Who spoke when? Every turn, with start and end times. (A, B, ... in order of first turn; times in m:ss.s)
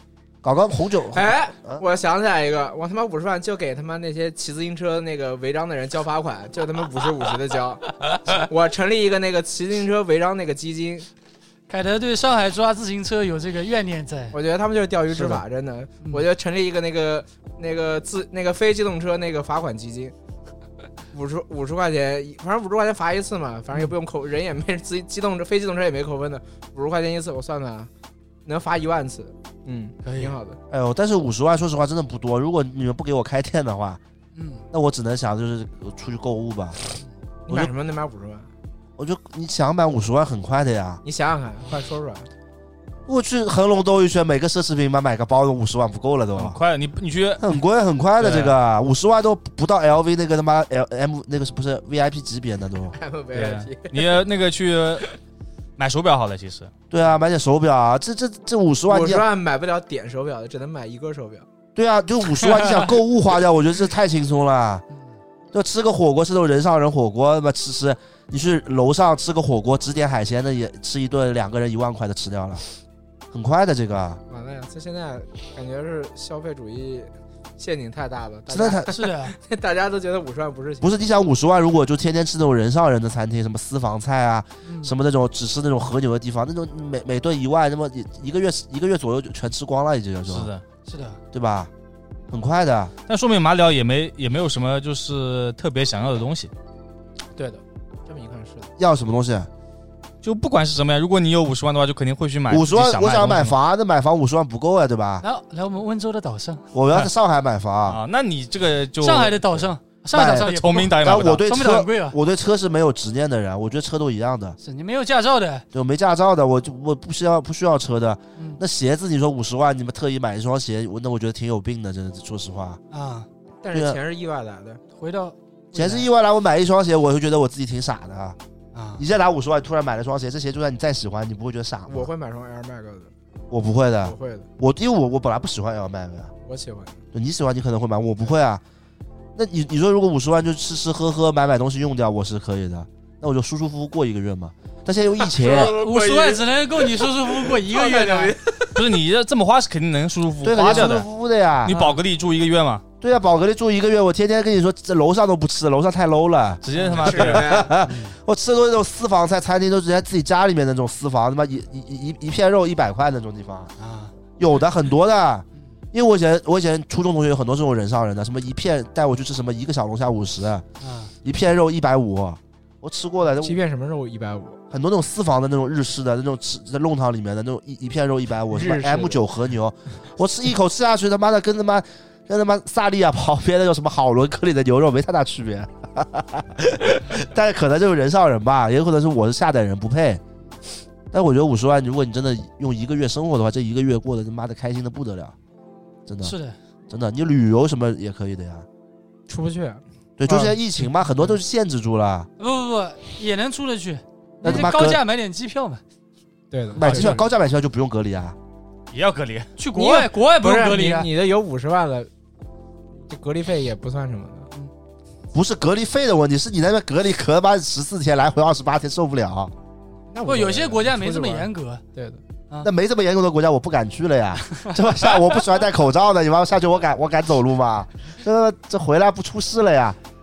0:00.4-0:01.8 A
0:01.1-0:11.1 B
0:11.7-0:14.4 C
0:14.3-0:20.2 B
0:15.1-0:15.4 A
0:21.1-0:27.9 B
0:28.4-0:30.6 B
0:30.0-0:30.4 C
0:30.7-0:34.0 A
0:34.4-0:34.6 C
0:34.7-0:36.8 A
0:37.5-0:38.5 B
0:39.0-0:41.0 A
0:41.0-0:42.3 B
0:43.1-0:46.6 A
0:46.4-0:47.5 D
0:47.4-0:53.0 A
0:48.2-0:48.6 D
0:52.9-0:54.2 B
0:53.3-0:55.2 D
0:55.8-0:56.7 D
0:56.9-0:59.2 A
0:58.9-1:01.5 B
1:01.8-1:04.8 A
1:05.5-1:12.6 A
1:13.3-1:14.2 A
1:14.3-1:21.1 B
1:18.5-1:18.9 A
1:18.9-1:19.4 C
1:20.8-1:30.5 A
1:24.6-1:24.9 C
1:30.3-1:30.6 D
1:30.9-1:31.2 C
1:31.3-1:31.7 A
1:32.3-1:32.9 A
1:33.1-1:36.5 D
1:37.4-1:38.7 B
1:38.8-1:39.5 A
1:40.2-1:43.6 D
1:42.5-1:45.2 A
1:45.2-1:46.7 C
1:46.7-1:48.0 A
1:47.9-1:49.6 D
1:49.0-1:52.2 C
1:50.1-1:54.6 A
1:50.4-1:51.4 D
1:54.6-1:55.6 C
1:55.7-2:02.8 A
2:02.9-2:03.3 C
2:03.6-2:04.8 B
2:03.7-2:04.0 A
2:05.0-2:06.1 C
2:05.7-2:08.4 A
2:08.7-2:09.0 C
2:09.0-2:12.1 A
2:11.9-2:13.1 B
2:13.5-2:16.3 A
2:14.0-2:14.5 B
2:16.4-2:17.0 B
2:17.1-2:18.6 A
2:19.4-2:25.8 A
2:25.2-2:28.8 B
2:25.5-2:28.4 C
2:28.8-2:31.1 D
2:30.4-2:31.7 A
2:31.6-2:32.8 D
2:31.7-2:32.0 C
2:33.0-2:43.7 A
2:36.6-2:37.5 D
2:36.8-2:37.3 C
2:37.0-2:37.8 B
2:37.8-2:38.2 C
2:43.8-2:44.1 C
2:44.4-2:50.6 A
2:50.8-2:51.1 C
2:51.2-2:53.6 A
2:53.4-2:54.6 B
2:54.7-3:10.2 A
2:58.5-2:59.2 B
3:11.1-3:15.4 A
3:16.1-3:16.4 A
3:16.2-3:16.6 C
3:16.9-3:18.7 A
3:19.3-3:20.6 B
3:20.2-3:22.3 A
3:22.4-3:25.8 C
3:24.4-3:25.0 A
3:26.5-3:27.3 B
3:26.8-3:28.4 A
3:26.9-3:27.1 C
3:28.9-3:29.5 D
3:29.6-3:31.1 C
3:29.7-3:32.1 B
3:33.1-3:34.5 B
3:35.3-3:39.5 A
3:40.1-3:42.2 B
3:40.3-3:41.8 C
3:42.6-3:50.0 A